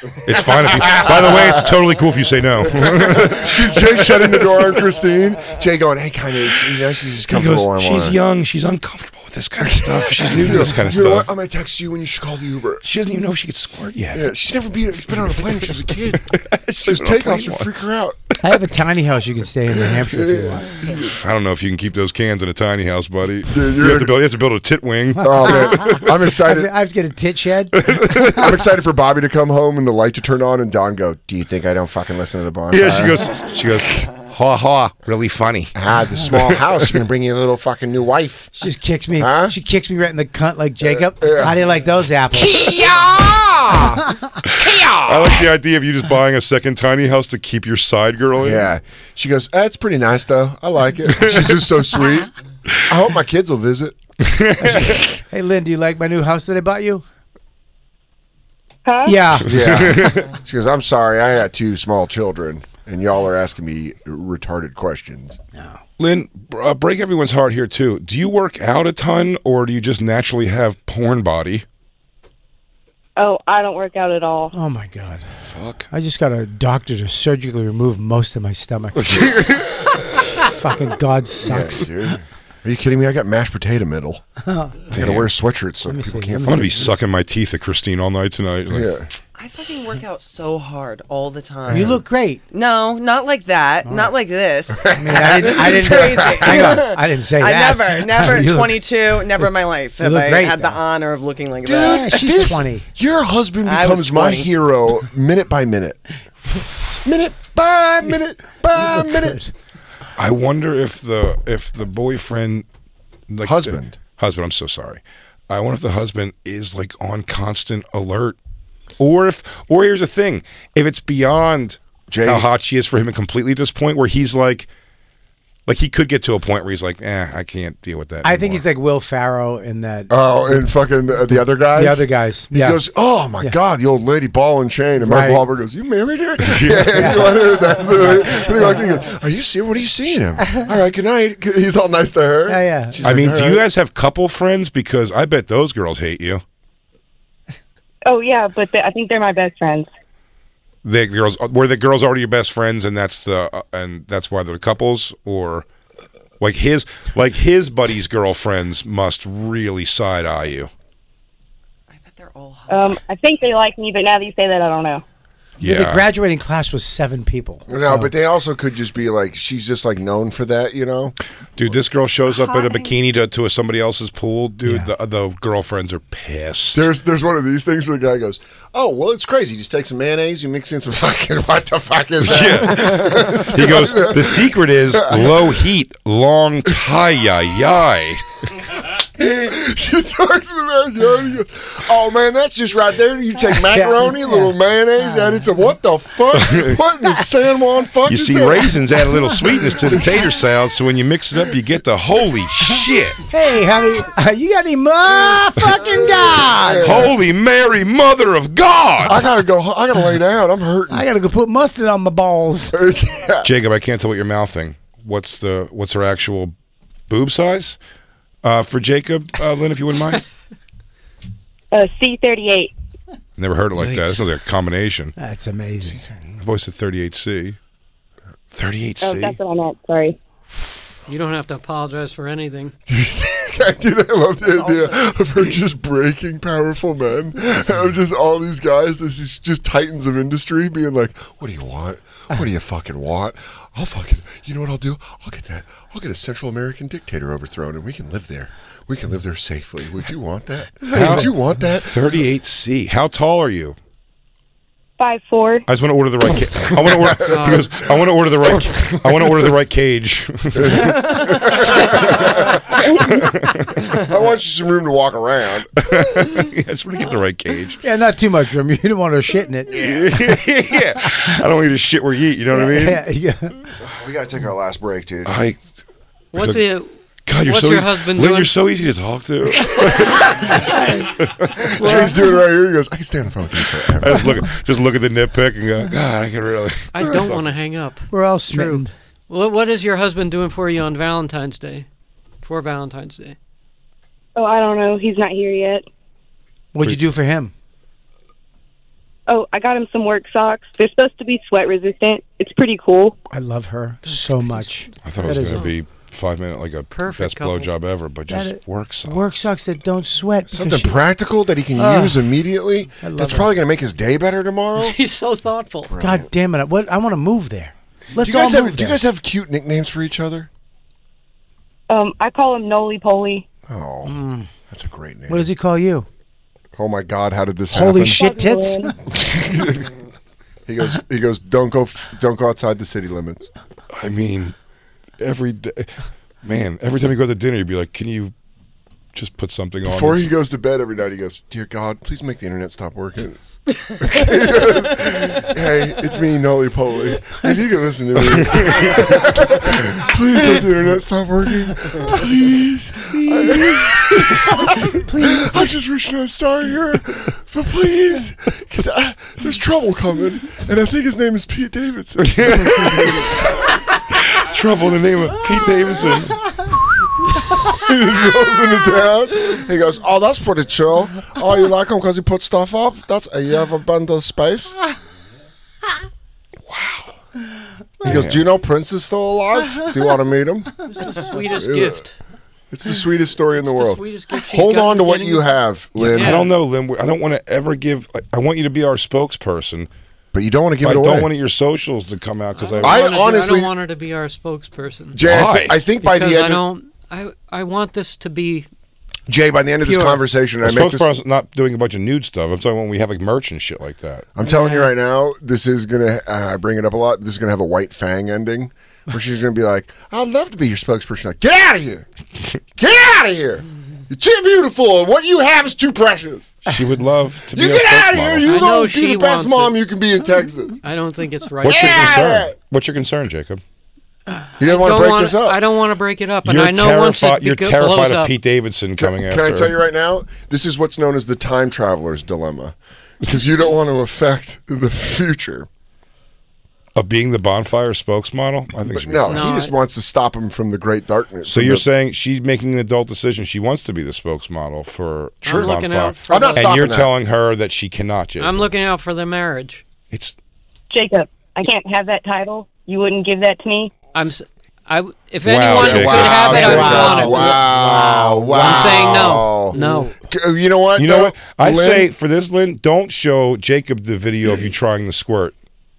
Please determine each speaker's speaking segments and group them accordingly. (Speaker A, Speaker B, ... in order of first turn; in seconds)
Speaker A: 0.2-4.7, 7.3-11.3, 12.8-14.3, 15.2-17.9, 20.9-26.1, 27.8-28.5, 32.7-35.8, 36.3-36.9, 44.5-48.7, 51.1-51.7, 54.2-55.1, 59.5-60.3, 66.0-71.7, 75.5-75.9, 79.0-80.0, 84.9-85.3, 86.4-88.9, 110.2-112.7, 113.3-118.4, 119.0-124.7, 125.7-128.6, 136.4-136.9, 143.0-146.4, 150.8-155.7, 156.4-160.7, 165.6-166.1, 171.6-176.8, 182.2-188.3, 196.3-196.8, 198.1-203.2, 206.8-209.3, 213.4-216.5, 217.1-217.8, 218.4-220.2, 223.4-225.2, 226.3-227.6, 228.5-229.4, 250.9-253.8, 255.7-263.9, 265.8-267.8, 269.7-273.0, 275.3-275.6, 276.4-276.6, 277.3-280.7, 281.2-281.7, 284.0-287.5, 305.0-309.4, 334.0-334.6, 335.2-338.3, 339.1-340.3, 348.3-349.1, 362.2-366.6, 376.7-377.1, 378.0-378.4, 386.0-389.9, 390.8-393.0, 395.2-395.9, 400.6-404.3, 416.6-418.6, 421.6-423.6, 426.4-429.7, 437.0-439.5, 441.4-448.7, 450.1-450.4, 455.4-456.7, 461.0-465.6
Speaker B: 0.3-1.7, 2.7-8.2, 9.6-12.8, 14.1-18.2, 19.9-21.1, 23.5-24.1, 25.2-26.7, 28.1-33.4, 35.8-38.5, 39.2-39.5, 40.8-41.6, 42.3-44.0, 44.6-45.5, 48.4-52.3, 52.9-54.0, 54.6-55.0, 59.5-65.4, 81.4-84.2, 84.9-86.9, 88.7-89.1, 94.8-96.7, 101.6-106.0, 107.0-109.4, 113.4-114.0, 122.1-122.5, 130.1-143.7, 167.7-171.2, 176.7-185.6, 189.2-198.8, 199.8-200.3, 205.9-207.2, 209.1-211.1, 212.7-213.5, 232.9-252.0, 256.7-257.7, 258.4-259.6, 260.6-262.6, 263.9-265.8, 273.8-275.4, 281.6-284.4, 310.5-315.0, 315.9-316.3, 318.2-320.5, 323.7-324.2, 324.7-325.5, 326.8-328.2, 329.1-329.9, 330.7-333.5, 339.8-343.4, 343.9-363.3, 367.7-374.8, 378.0-382.0, 382.7-386.5, 390.3-391.3, 392.8-393.7, 395.1-396.6, 399.3-401.1, 404.4-412.1, 412.8-416.6, 417.5-420.8, 421.6-422.5, 424.6-425.6, 429.0-435.7, 438.9-441.9, 446.3-447.1, 455.7-459.8, 460.3-462.1
Speaker C: 18.4-20.7, 25.2-28.3, 38.5-42.6, 55.3-57.0, 59.1-59.5, 65.5-65.8, 74.5-75.3, 75.9-79.3, 80.0-82.1, 84.5-85.0, 85.9-87.0, 91.7-92.4, 93.8-94.1, 94.9-98.9, 100.0-100.8, 101.8-102.9, 108.8-109.5, 128.2-130.1, 131.7-132.8, 135.0-135.4, 136.9-137.4, 142.5-143.0, 165.6-168.1, 174.7-174.9, 193.7-195.4, 203.3-207.1, 210.9-212.8, 225.2-226.0, 250.9-251.2, 267.8-269.8, 272.5-273.7, 288.1-288.9, 296.7-297.5, 303.3-305.7, 308.3-311.0, 311.8-312.3, 313.0-313.6, 316.0-319.0, 324.1-324.5, 325.3-326.1, 327.7-328.9, 354.2-355.7, 456.5-459.1, 459.7-460.1
Speaker D: 58.9-59.2, 73.2-74.5, 148.1-149.9, 162.7-165.0, 221.7-222.7, 229.0-230.2, 255.0-255.7, 262.8-263.2, 294.4-295.9, 299.3-303.2, 321.9-323.4, 328.1-328.9, 450.9-454.0
Speaker E: 89.3-102.4, 103.6-104.5, 161.9-163.0, 172.3-173.0, 234.4-235.1
Speaker F: 223.8-224.2, 231.1-232.7, 257.2-257.7, 276.3-278.6, 281.8-282.2, 286.9-291.9, 292.4-293.4, 304.0-305.8, 306.9-307.7, 314.8-315.9, 380.9-382.2, 383.5-385.5, 386.1-386.5, 392.6-395.2, 396.0-398.7, 399.9-400.2, 404.4-404.9, 418.4-419.8, 420.8-422.4, 424.4-428.4, 439.3-439.8, 445.4-446.8, 448.4-449.9, 454.1-457.7, 458.5-460.1